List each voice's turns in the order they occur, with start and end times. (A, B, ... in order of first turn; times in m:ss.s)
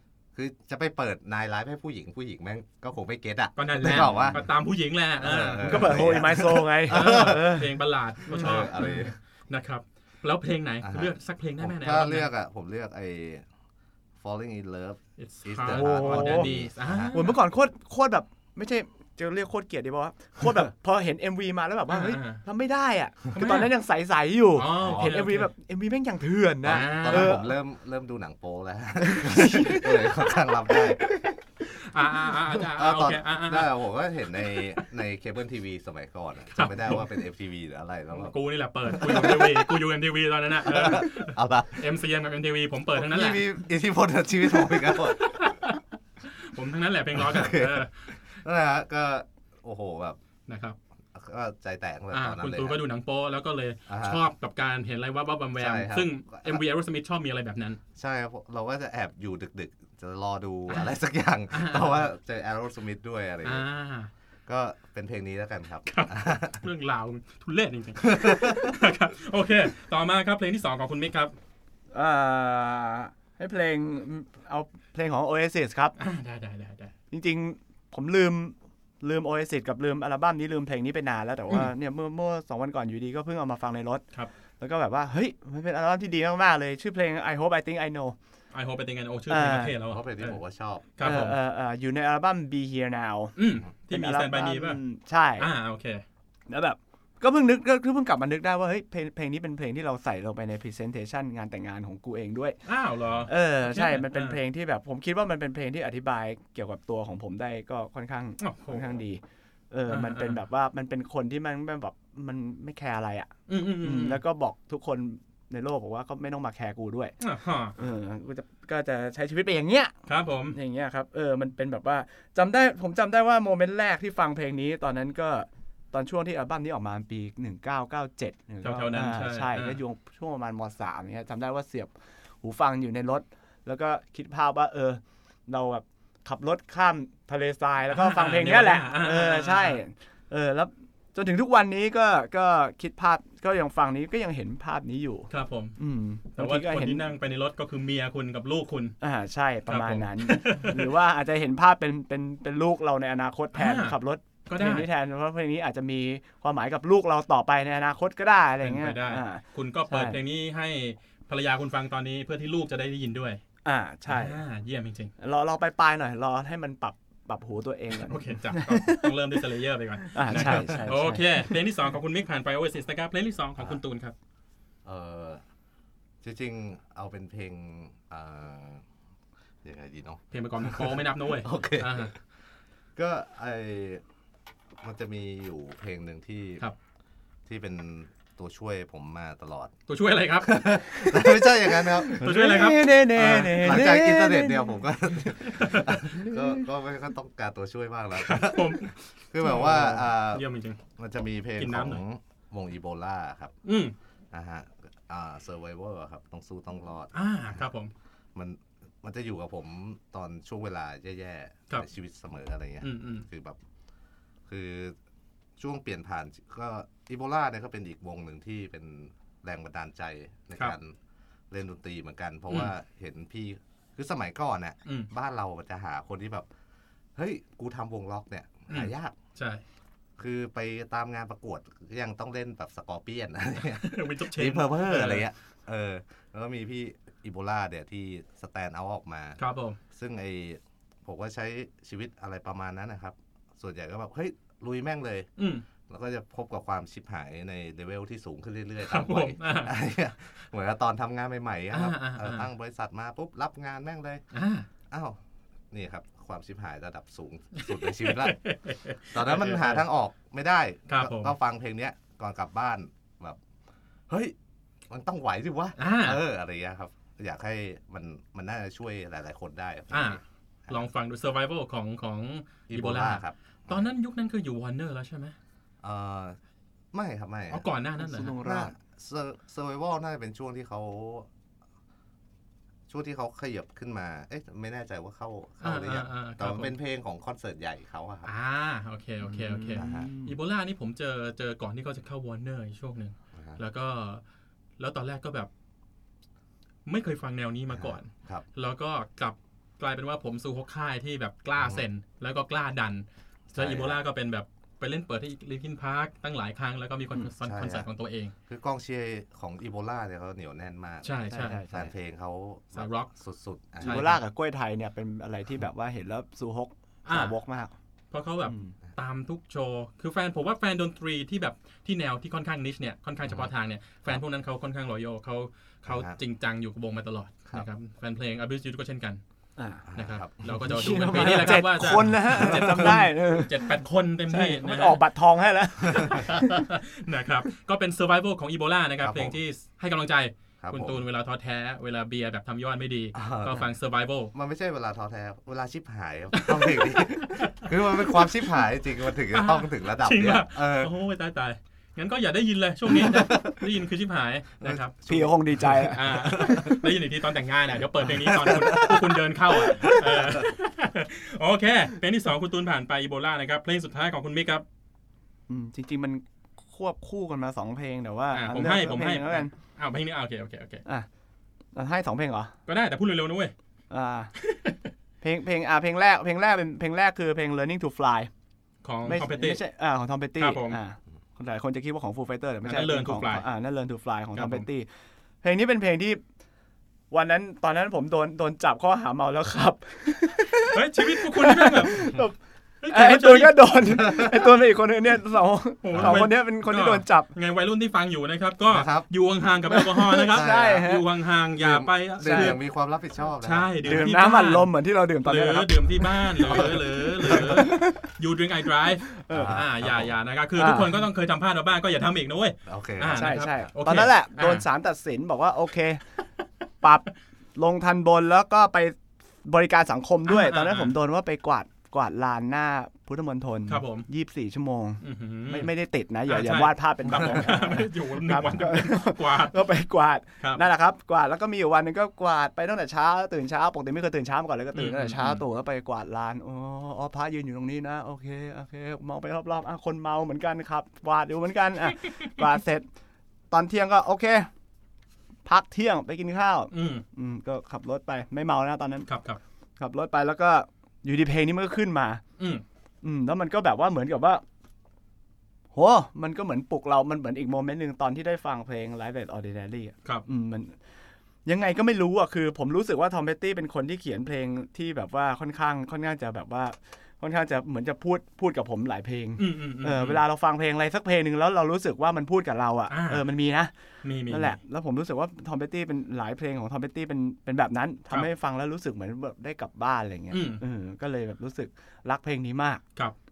0:00.3-0:04.4 A
0:03.6-0:12.3 B
0:05.2-0:07.6 A
0:05.6-0:07.7 C
0:08.3-0:08.9 C
0:08.3-0:09.2 A
0:10.8-0:13.4 A
0:14.2-0:17.2 A
0:15.2-0:17.4 B
0:15.7-0:16.5 C
0:17.1-0:27.5 C
0:21.9-0:22.4 B
0:23.3-0:23.7 B
0:24.6-0:25.5 B
0:24.8-0:25.2 A
0:26.6-0:27.4 B
0:26.6-0:31.0 A
0:29.0-0:30.1 C
0:30.7-0:31.3 C
0:31.6-0:33.7 B
0:32.4-0:38.4 A
0:36.5-0:37.1 B
0:38.1-0:43.4 B
0:38.9-0:39.8 A
0:40.6-0:41.9 A
0:43.0-0:45.6 A
0:44.6-0:48.2 B
0:47.1-0:50.2 A
0:50.5-0:50.8 B
0:51.1-0:52.8 A
0:52.1-0:57.8 B
0:53.9-0:54.2 A
0:55.6-0:56.6 A
0:58.0-1:03.6 A
1:01.5-1:02.1 B
1:03.4-1:04.1 B
1:04.5-1:06.6 A
1:05.9-1:11.3 B
1:08.0-1:08.8 A
1:11.9-1:15.9 C
1:16.0-1:16.9 B
1:17.1-1:24.0 C
1:24.6-1:28.2 C
1:28.5-1:30.4 B
1:29.3-1:29.8 C
1:29.8-1:30.8 A
1:31.0-1:31.4 B
1:31.0-1:33.4 C
1:33.4-1:34.8 B
1:33.9-1:35.5 C
1:35.4-1:36.0 B
1:36.5-1:42.6 C
1:42.6-1:44.4 B
1:43.0-1:43.3 A
1:43.3-1:53.3 C
1:48.4-1:49.0 B
1:49.9-1:50.4 B
1:53.5-1:54.2 B
1:53.8-1:57.2 C
1:57.2-1:57.8 B
1:57.8-1:59.9 C
2:00.1-2:00.6 B
2:00.5-2:27.0 C
2:08.6-2:09.8 B
2:17.9-2:19.8 B
2:25.3-2:25.8 B
2:26.4-2:29.0 B
2:29.0-2:40.2 C
2:29.7-2:30.9 B
2:33.6-2:34.0 B
2:34.5-2:34.9 B
2:38.6-2:43.4 B
2:43.6-2:44.4 C
2:44.1-2:45.1 B
2:45.2-2:49.1 C
2:48.0-2:54.1 B
2:50.1-2:51.5 C
2:50.4-2:50.8 A
2:54.8-2:55.4 A
2:56.2-2:58.8 A
2:59.6-3:02.1 A
3:00.3-3:02.1 B
3:03.0-3:04.0 A
3:04.8-3:06.6 A
3:07.5-3:09.7 A
3:09.9-3:10.6 B
3:10.4-3:12.6 A
3:10.9-3:14.8 C
3:12.2-3:13.8 B
3:13.3-3:20.5 A
3:15.2-3:16.0 B
3:16.1-3:16.6 C
3:18.2-3:20.8 B
3:21.0-3:23.6 A
3:21.6-3:22.0 B
3:23.6-3:24.0 B
3:24.3-3:27.6 A
3:27.1-3:27.9 B
3:28.4-3:33.6 A
3:32.8-3:33.3 B
3:34.5-3:35.0 A
3:35.6-3:41.0 A
3:41.5-3:46.5 A
3:47.2-3:49.2 A
3:48.7-3:49.6 B
3:50.2-3:59.4 A
3:53.7-3:55.3 B
3:59.4-3:59.8 B
3:59.9-4:05.3 A
4:05.4-4:05.6 B
4:05.9-4:14.2 A
4:08.9-4:09.8 B
4:11.7-4:12.5 B
4:14.3-4:14.7 B
4:14.9-4:15.2 A
4:15.7-4:18.4 A
4:17.6-4:19.8 B
4:19.1-4:23.4 A
4:20.9-4:21.3 B
4:24.1-4:24.4 A
4:24.9-4:30.8 A
4:25.8-4:26.2 B
4:29.9-4:35.4 B
4:32.7-4:33.9 A
4:35.8-4:36.4 A
4:36.9-4:37.6 A
4:37.5-4:38.4 B
4:38.0-4:38.7 C
4:38.4-4:41.3 A
4:42.9-4:48.3 A
4:45.6-4:46.7 B
4:48.2-4:54.2 B
4:49.3-4:50.1 A
4:49.4-4:50.3 C
4:54.8-4:55.5 B
4:56.9-5:08.3 B
4:57.7-4:58.4 A
5:01.6-5:01.8 A
5:03.6-5:04.0 A
5:07.4-5:07.9 A
5:08.5-5:14.1 A
5:11.0-5:11.6 B
5:11.3-5:11.9 C
5:12.7-5:13.1 B
5:13.8-5:14.2 B
5:13.8-5:17.7 C
5:17.1-5:17.4 B
5:18.1-5:29.2 B
5:18.5-5:18.7 C
5:25.8-5:26.2 A
5:29.6-5:29.8 C
5:29.9-5:31.3 A
5:30.0-5:35.0 B
5:30.6-5:33.7 C
5:32.3-5:32.9 A
5:34.3-5:36.7 C
5:35.9-5:36.2 A
5:36.0-5:44.3 B
5:39.0-5:39.4 A
5:40.6-5:41.0 A
5:43.2-5:43.7 A
5:44.3-5:50.9 A
5:46.3-5:48.4 B
5:49.3-5:55.2 B
5:53.0-5:53.6 A
5:54.6-5:55.3 A
5:55.1-5:56.8 C
5:55.8-6:04.6 B
5:56.1-5:56.8 A
5:58.0-6:00.5 A
6:05.5-6:09.5 C
6:08.3-6:10.8 B
6:11.8-6:12.5 C
6:12.7-6:13.5 B
6:13.9-6:14.3 C
6:14.4-6:14.9 B
6:15.2-6:18.3 C
6:18.8-6:19.6 B
6:19.0-6:24.9 C
6:20.4-6:20.8 B
6:22.6-6:23.4 B
6:24.4-6:24.7 B
6:25.4-6:26.2 C
6:27.1-6:32.4 C
6:30.7-6:32.2 B
6:32.8-6:33.9 B
6:32.9-6:37.3 C
6:34.0-6:34.3 A
6:35.8-6:42.6 B
6:35.9-6:36.2 A
6:38.7-6:39.1 A
6:39.7-6:41.1 C
6:40.3-6:40.8 A
6:41.6-6:44.0 A
6:42.2-6:42.6 C
6:43.4-6:44.7 B
6:43.8-6:48.1 C
6:45.2-6:54.6 B
6:46.4-6:47.6 A
6:49.1-6:49.6 C
6:49.3-6:50.2 A
6:50.6-6:51.0 C
6:52.7-6:53.3 A
6:53.1-6:56.0 C
6:56.8-7:22.9 C
7:00.3-7:01.0 B
7:03.7-7:04.1 B
7:05.0-7:05.7 B
7:06.3-7:09.6 B
7:14.8-7:15.4 B
7:23.5-7:24.5 C
7:25.4-7:29.1 C
7:26.7-7:27.0 B
7:29.1-7:29.4 B
7:29.8-7:32.2 C
7:33.0-7:34.4 C
7:35.7-7:40.8 C
7:41.5-7:53.7 C
7:49.4-7:50.2 B
7:52.9-7:53.2 B
7:54.0-7:54.6 B
7:54.3-8:02.8 C
8:00.3-8:00.6 B